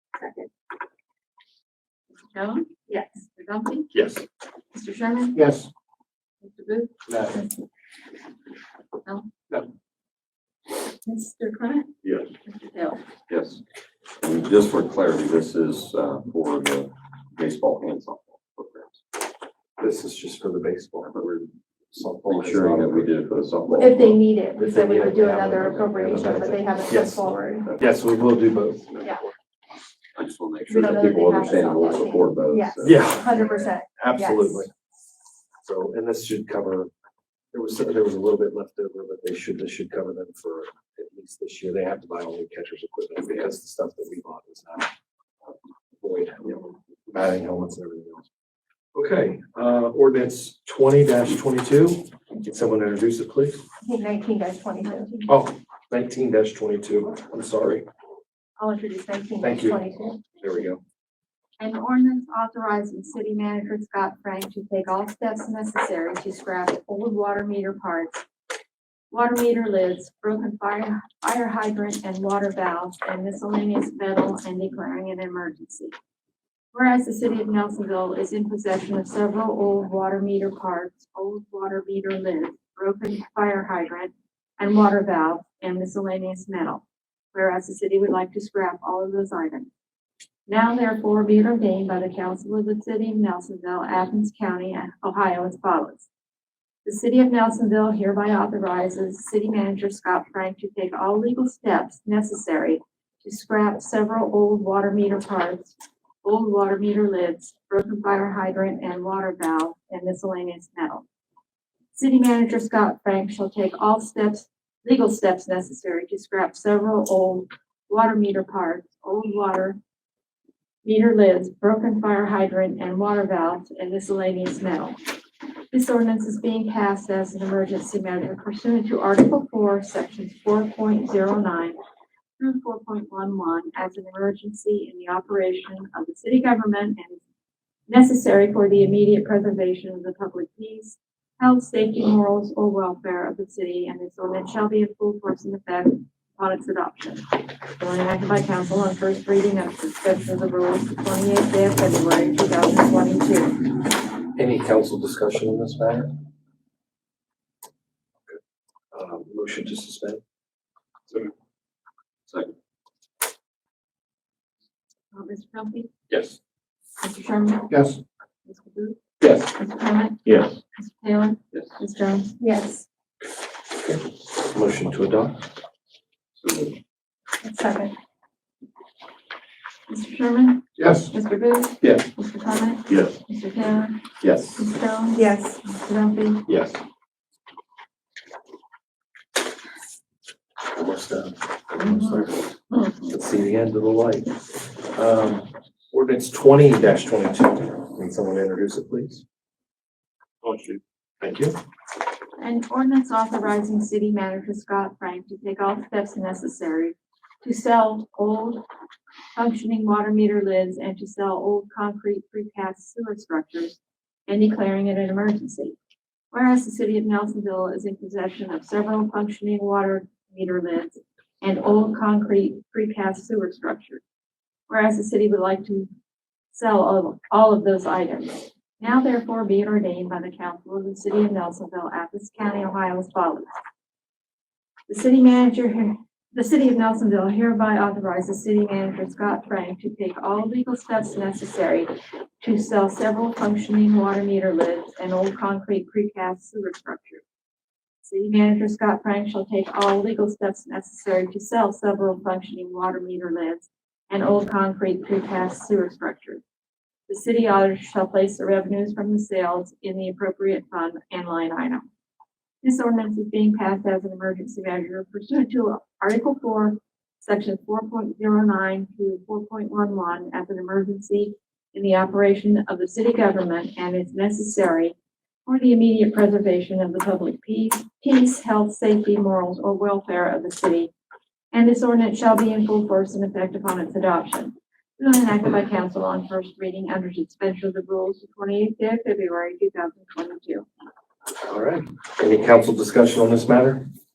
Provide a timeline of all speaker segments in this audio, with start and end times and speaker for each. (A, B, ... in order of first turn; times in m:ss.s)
0:00.2-0:00.5 A
0:02.3-0:03.9 B
0:03.9-0:04.2 C
0:04.7-0:05.4 B
0:05.3-0:05.7 C
0:06.4-0:07.6 B
0:07.1-0:07.4 C
0:11.0-0:11.9 B
0:12.0-0:12.3 D
0:12.4-0:13.0 B
0:13.3-0:13.6 D
0:14.2-0:19.0 D
0:19.8-0:21.1 C
0:21.0-0:21.5 D
0:21.9-0:23.1 C
0:22.2-0:24.2 D
0:23.8-0:27.7 A
0:24.6-0:29.3 C
0:30.1-0:33.0 D
0:30.6-0:34.6 A
0:32.8-0:34.7 C
0:35.6-0:36.9 C
0:37.5-0:44.9 C
0:46.0-0:48.2 C
0:48.9-0:53.6 C
0:53.8-0:55.1 A
0:54.8-0:55.3 B
0:55.3-0:57.8 C
0:58.6-1:00.2 A
0:59.4-0:59.8 C
1:00.4-1:00.8 C
1:01.6-1:08.2 B
1:09.1-1:15.9 B
1:16.7-1:29.7 B
1:30.5-1:36.1 B
1:36.8-1:51.0 B
1:51.9-1:59.8 B
2:00.8-2:05.0 B
2:05.7-2:11.8 B
2:12.4-2:17.2 B
2:17.9-2:33.7 B
2:34.4-2:36.1 C
2:38.9-2:40.2 C
2:45.1-2:45.9 B
2:46.1-2:46.4 C
2:47.0-2:47.7 B
2:47.7-2:48.0 C
2:48.4-2:49.0 B
2:49.2-2:49.5 C
2:49.5-2:50.2 B
2:50.2-2:50.6 D
2:50.7-2:52.4 B
2:52.4-2:52.8 A
2:53.8-2:55.4 C
2:56.4-2:56.7 D
2:57.4-2:57.9 A
2:59.9-3:04.0 B
3:00.8-3:01.1 C
3:02.9-3:03.2 D
3:04.2-3:04.7 D
3:04.6-3:06.4 B
3:05.1-3:05.6 A
3:06.5-3:06.8 C
3:10.7-3:12.4 C
3:11.8-3:13.1 B
3:13.1-3:19.2 C
3:20.4-3:21.6 C
3:22.4-3:28.6 B
3:29.3-3:33.8 B
3:34.3-3:35.8 B
3:36.3-3:44.0 B
3:44.7-3:45.9 B
3:46.5-3:53.6 B
3:54.9-4:07.2 B
4:08.0-4:16.4 B
4:17.1-4:21.8 B
4:22.6-4:40.9 B
4:41.5-4:50.6 B
4:51.5-4:53.8 C